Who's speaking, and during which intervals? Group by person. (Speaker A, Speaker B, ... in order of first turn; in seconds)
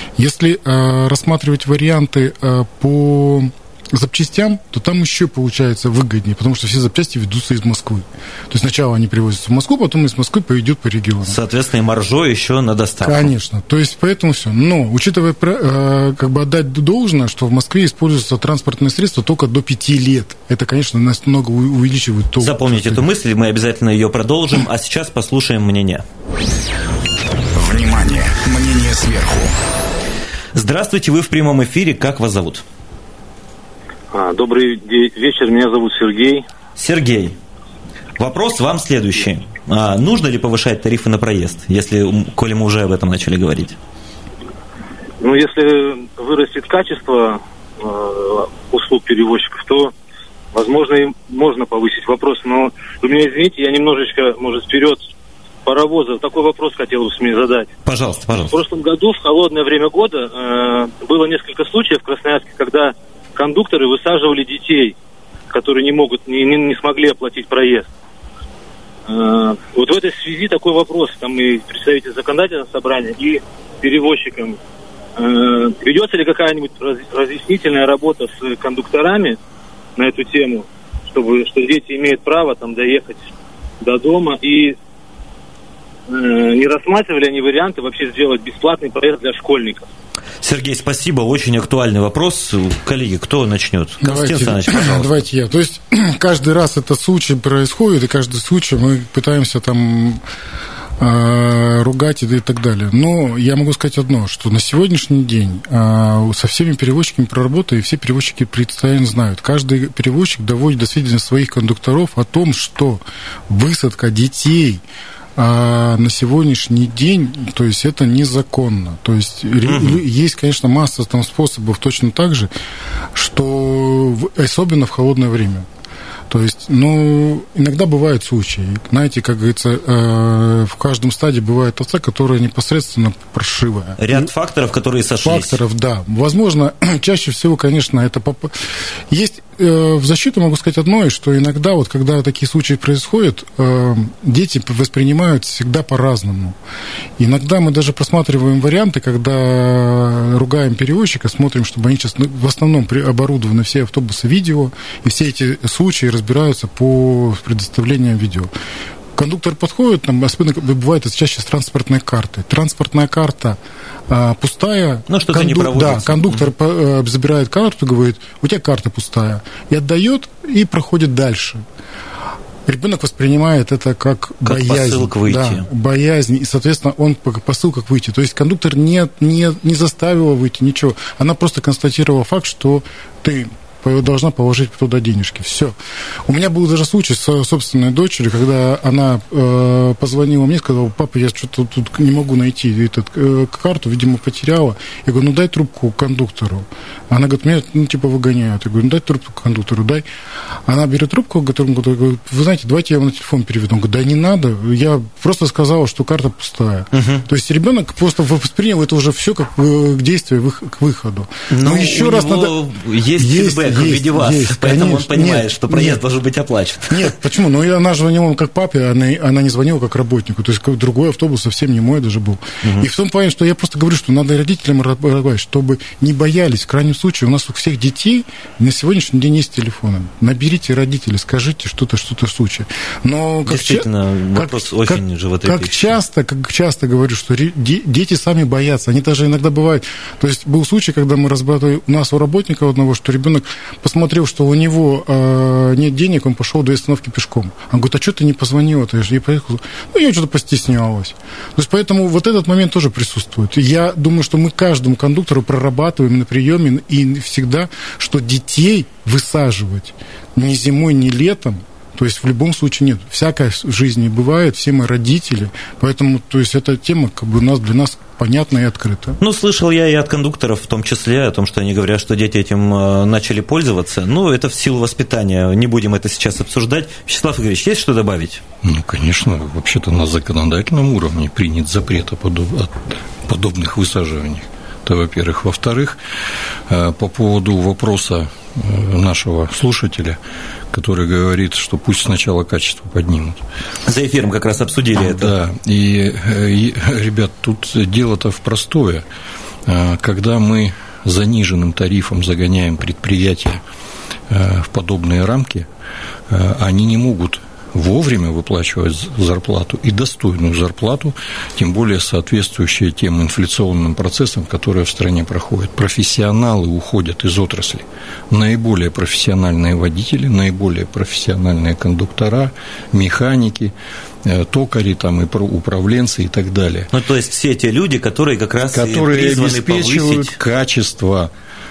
Speaker A: 0.2-11.4, 13.0-23.0, 94.0-100.2, 101.0-114.8, 115.3-122.5, 123.1-125.7, 126.3-134.3, 135.2-138.6, 139.1-146.6, 147.2-158.5, 159.2-163.6, 164.1-171.6, 172.7-185.7, 186.2-200.0, 200.7-212.5, 213.2-216.0, 216.9-269.2
Speaker B: 11.2-13.3, 22.4-26.0, 30.5-32.6, 36.8-37.4, 38.2-43.8, 57.9-58.6, 90.4-95.2, 119.6-120.0, 134.0-135.6, 165.1-166.5, 174.4-175.7, 206.9-207.2, 211.5-217.1, 222.6-222.9, 233.4-235.8, 269.2-278.4, 293.9-295.3, 326.9-330.4
Speaker C: 27.6-29.5
Speaker D: 34.1-36.4, 45.2-49.9, 50.5-55.0, 55.6-57.7, 58.5-65.0, 65.5-67.9, 69.1-74.6, 75.2-79.4, 80.0-84.8, 86.1-89.9
Speaker E: 278.6-286.0, 286.7-290.2, 290.7-293.4, 294.9-299.1, 299.6-303.6, 304.3-305.7, 306.3-323.7, 324.2-326.9, 328.7-331.3